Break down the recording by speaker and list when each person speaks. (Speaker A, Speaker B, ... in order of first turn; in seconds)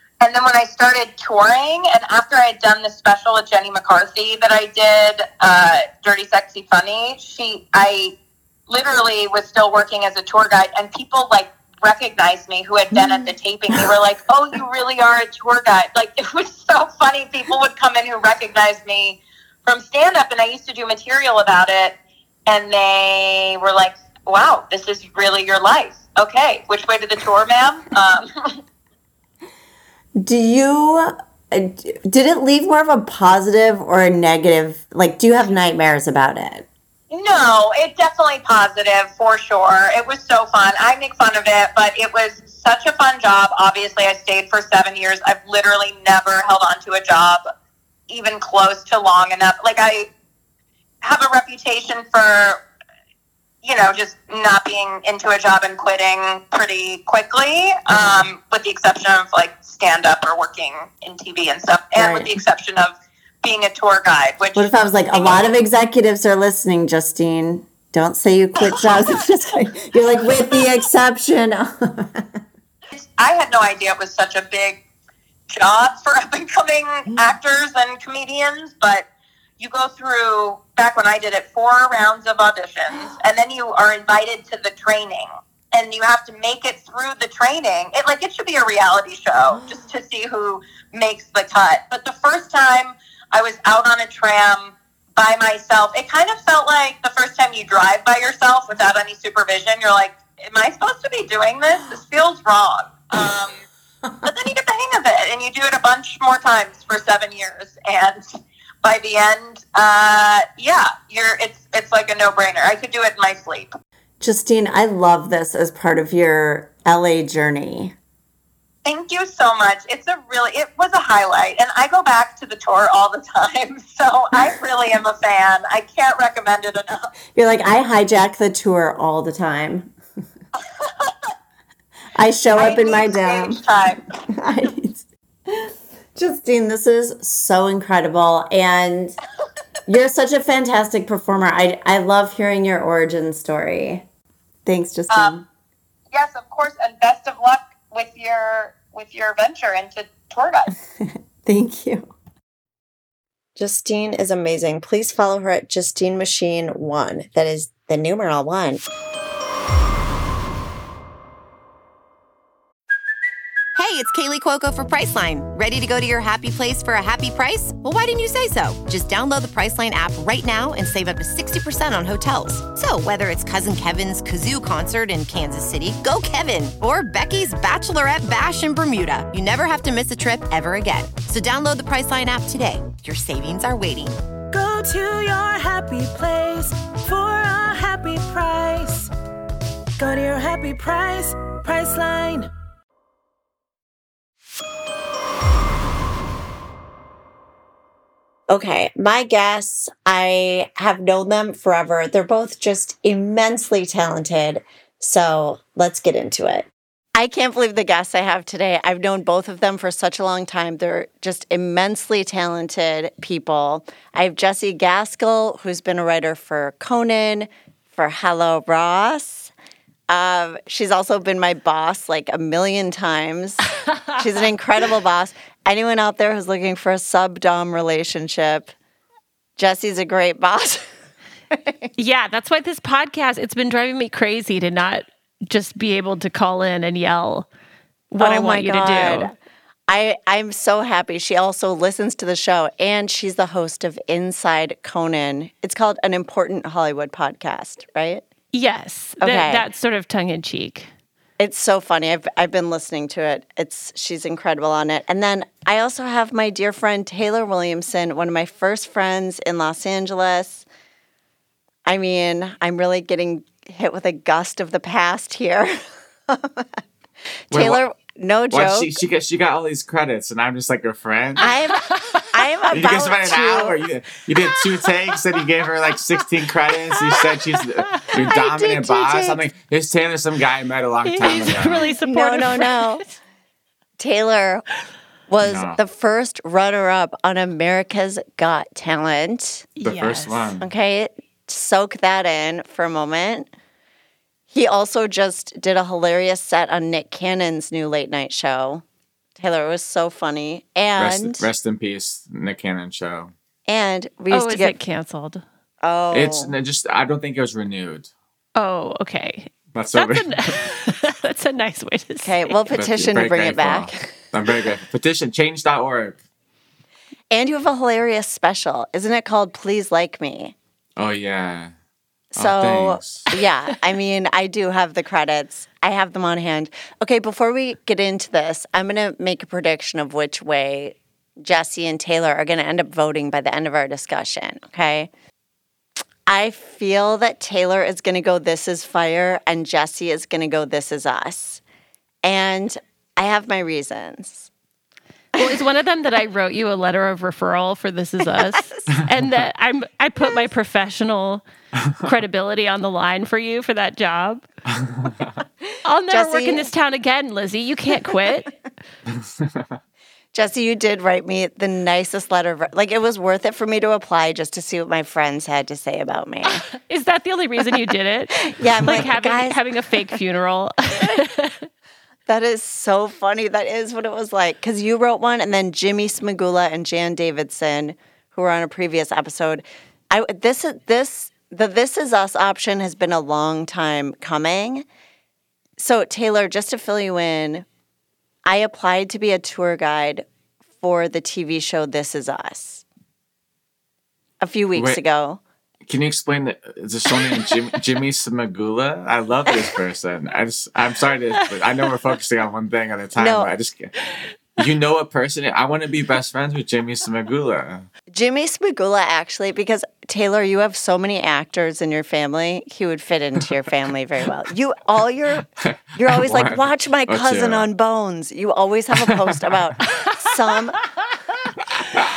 Speaker A: 0.2-8.1, 8.7-28.6, 37.1-47.4, 48.1-50.1, 51.0-52.6, 53.6-65.5, 72.9-74.8, 75.5-79.1, 79.6-103.6, 104.2-113.7, 118.8-127.1, 132.5-134.1, 145.1-145.4, 146.1-150.7
Speaker B: 12.9-13.3, 30.2-36.7, 61.9-62.4, 64.5-72.3, 114.2-117.9, 127.3-129.9, 132.2-133.6, 134.3-135.0, 136.1-139.2, 139.8-144.1, 144.6-145.5, 151.4-152.1, 153.6-158.8, 198.5-219.5, 220.1-228.7, 229.6-230.9, 231.5-231.8, 238.2-239.3, 239.9-248.2, 249.2-249.6, 251.4-260.6, 261.9-266.7, 267.5-268.9, 271.4-273.8, 278.1-279.4, 282.0-283.0, 284.0-284.6, 285.3-289.7, 290.6-293.5, 294.5-298.8, 299.4-301.4, 303.7-304.8, 305.8-306.5, 312.2-314.1, 317.3-320.6, 322.3-335.1, 336.3-341.6, 342.2-344.5, 348.3-348.8, 356.1-356.7, 360.3-366.7, 368.4-369.6, 372.3-384.9, 385.8-387.6, 388.4-390.2, 390.8-392.8, 394.4-395.4, 403.1-403.5, 408.1-420.8
Speaker C: 163.8-184.2
Speaker D: 184.5-189.1, 190.0-192.5
Speaker E: 231.9-237.5, 238.1-239.3, 248.5-250.9, 271.9-272.2, 274.4-275.1, 276.9-278.3, 281.0-283.1, 289.8-290.5, 304.3-305.4, 308.6-312.5, 345.3-351.4, 352.0-354.4, 355.8-358.5, 366.5-371.6
Speaker F: 267.5-267.8, 268.5-271.5, 272.7-282.0, 285.4-285.8, 289.8-290.6, 301.0-303.3, 306.1-308.1, 309.7-310.6, 312.7-316.2, 321.0-321.7, 322.4-323.2, 354.8-355.3, 359.2-359.7, 394.7-395.0, 395.9-403.9, 404.6-407.9, 415.6-417.6